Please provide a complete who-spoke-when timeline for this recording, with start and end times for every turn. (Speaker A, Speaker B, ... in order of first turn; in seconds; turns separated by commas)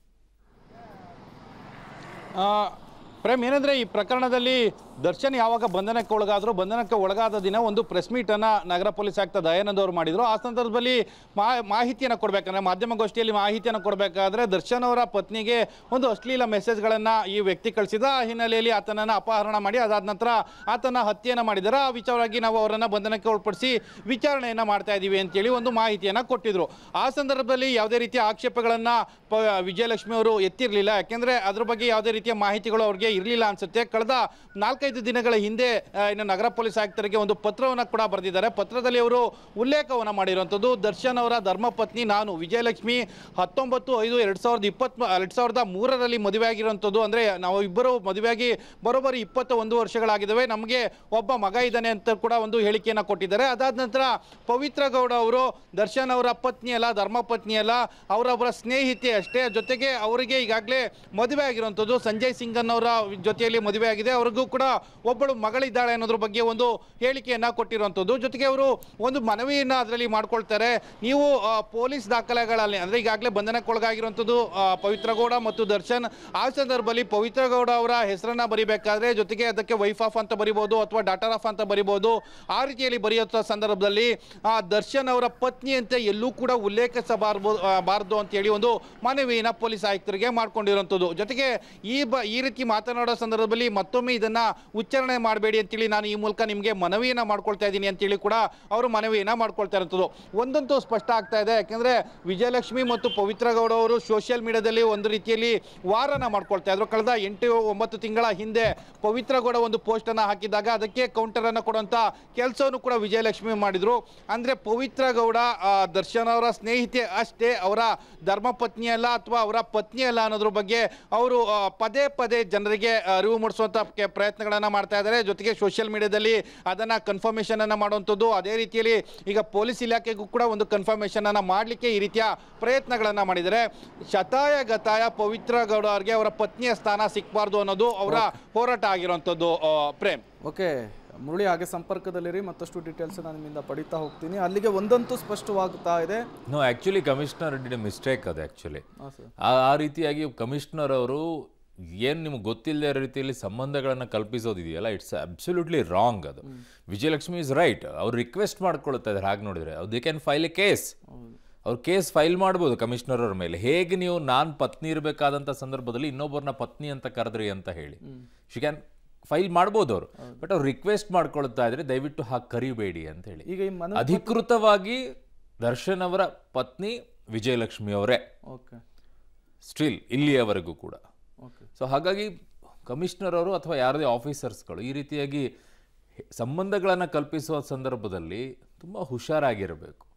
Speaker A: 2.4-140.2, Speaker B: 140.4-146.2, Speaker C: 146.5-148.8, Speaker B: 149.0-149.3, Speaker C: 149.4-151.2, Speaker C: 152.0-160.9, Speaker C: 161.6-175.0, Speaker B: 173.4-174.4, Speaker C: 175.6-178.2, Speaker B: 178.5-178.8, Speaker C: 179.6-181.0, Speaker C: 181.8-182.3, Speaker C: 182.8-185.5, Speaker C: 186.3-190.1